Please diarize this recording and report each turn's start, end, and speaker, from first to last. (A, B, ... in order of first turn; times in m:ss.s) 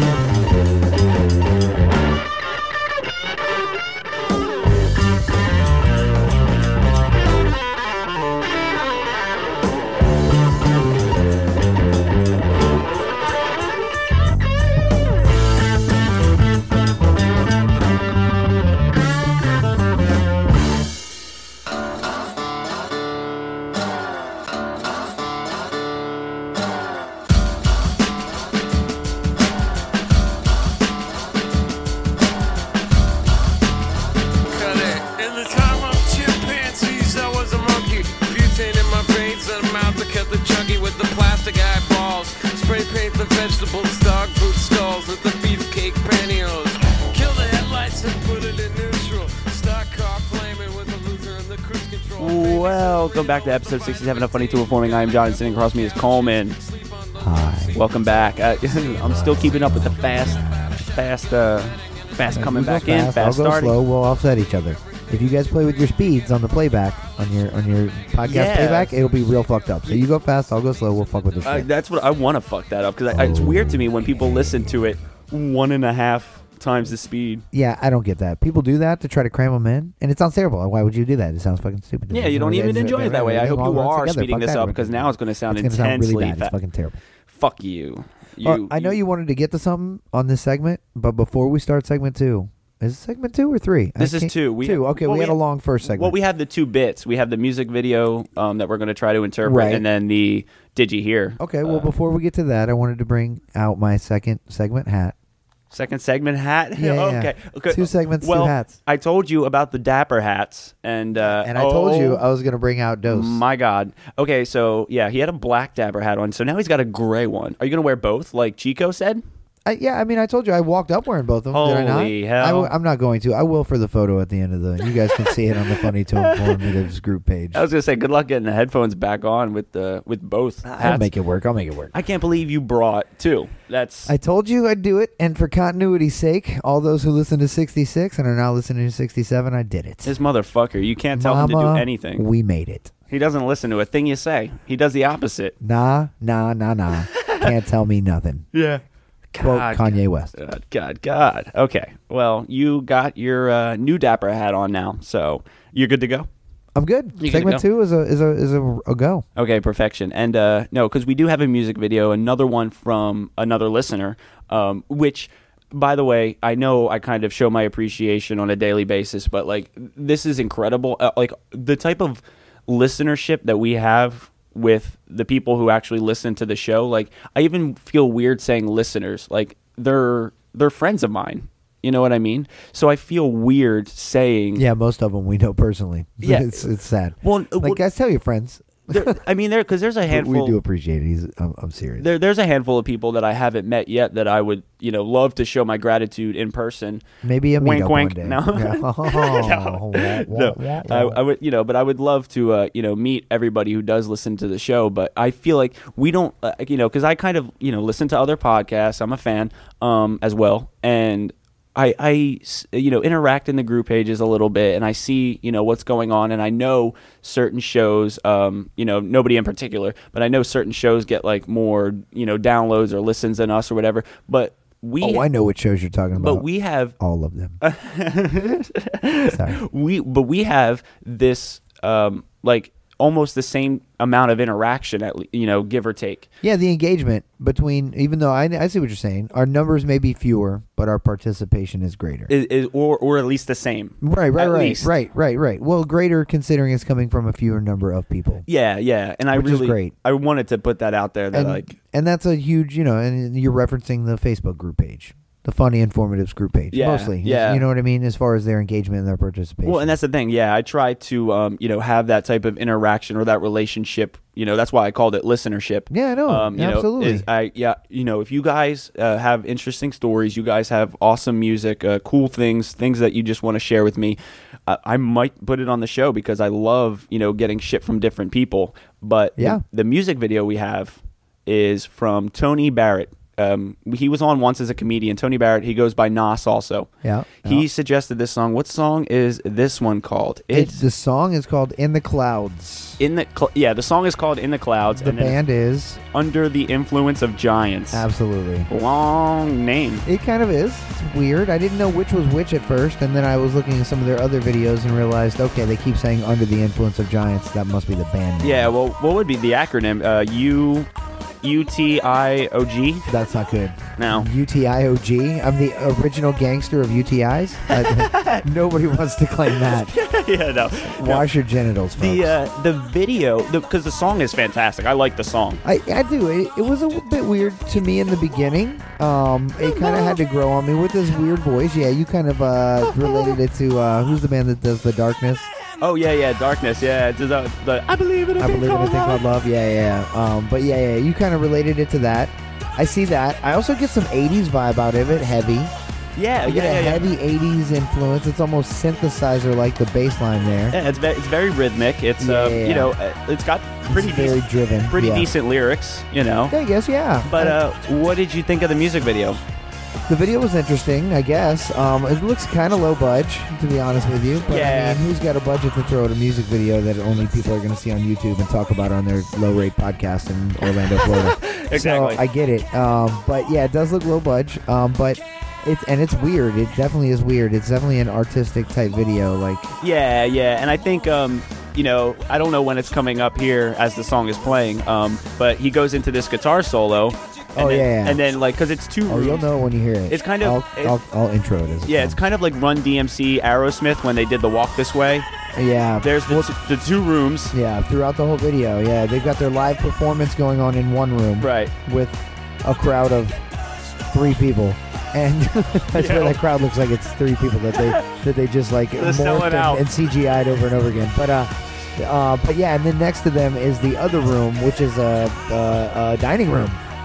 0:34.4-0:57.8 A
0:52.2-0:56.6 B
0:57.2-0:57.8 C
0:57.7-1:03.8 B
0:58.9-1:00.9 C
1:02.3-1:11.7 C
1:08.2-1:09.0 B
1:11.4-1:17.4 B
1:13.1-1:14.6 C
1:17.5-1:27.0 C
1:22.1-1:26.5 B
1:27.3-1:29.0 B
1:28.4-1:36.2 C
1:34.0-1:41.9 B
1:39.4-1:39.8 C
1:41.4-1:45.2 C
1:45.7-1:52.2 B
1:46.8-1:48.8 C
1:51.2-1:53.4 C
1:53.1-1:59.2 B
1:59.7-2:07.6 C
2:01.5-2:02.7 B
2:06.2-2:06.7 B
2:07.5-2:11.1 B
2:10.7-2:11.9 C
2:11.9-2:14.1 B
2:14.1-2:20.1 C
2:20.0-2:22.2 B
2:21.2-2:22.9 C
2:23.1-2:25.5 B
2:25.6-2:28.5 C
2:27.1-2:27.5 B
2:28.5-2:36.3 B
2:29.4-2:30.3 C
2:36.8-2:39.2 C
2:37.2-2:37.6 B
2:39.4-3:04.6 B
3:04.6-3:09.2 C
3:06.2-3:06.6 B
3:07.2-3:07.8 B
3:08.9-3:10.6 B
3:10.1-3:12.1 C
3:12.0-3:17.0 B
3:17.2-3:21.2 C
3:17.6-3:45.3 B
3:45.0-3:47.6 C
3:46.2-3:47.0 B
3:47.6-3:56.3 B
3:49.3-3:49.6 C
3:56.4-4:02.3 C
4:02.3-4:04.9 B
4:04.0-4:08.5 C
4:08.5-4:11.8 B
4:09.3-4:09.9 C
4:11.3-4:20.0 C
4:16.7-4:17.7 B
4:19.6-4:46.9 B
4:25.9-4:27.2 C
4:39.4-4:39.6 C
4:47.0-4:47.7 C
4:47.4-4:50.8 B
4:50.5-4:53.0 C
4:53.0-4:55.4 B
4:54.9-4:56.0 C
4:56.1-4:58.0 B
4:57.9-4:58.7 C
4:58.7-5:00.1 B
5:00.0-5:08.7 C
5:08.4-5:10.9 B
5:11.4-5:13.1 B
5:13.1-5:19.9 C
5:14.0-5:14.3 B
5:17.7-5:18.5 B
5:19.5-5:21.3 B
5:20.8-5:22.4 C
5:22.0-5:25.6 B
5:25.6-5:35.5 C
5:29.7-5:30.1 B
5:33.0-5:33.3 B
5:35.8-5:39.2 B
5:38.4-5:45.7 C
5:46.2-5:47.1 B
5:46.4-5:50.8 C
5:50.7-5:56.5 B
5:52.2-5:52.9 C
5:53.9-5:55.3 C
5:56.5-5:57.6 C
5:57.2-5:59.4 B
6:00.1-6:19.7 C
6:04.5-6:05.0 B
6:11.2-6:12.2 B
6:19.8-6:29.5 B
6:27.6-6:28.3 C
6:29.1-6:32.2 C
6:30.1-6:31.0 B
6:31.8-6:35.3 B
6:35.5-6:36.5 C
6:36.0-6:37.5 B
6:37.5-6:43.4 C
6:41.4-6:41.7 B
6:44.1-6:56.8 C
6:45.9-6:46.4 B
6:47.8-6:48.1 B
6:49.0-6:49.9 B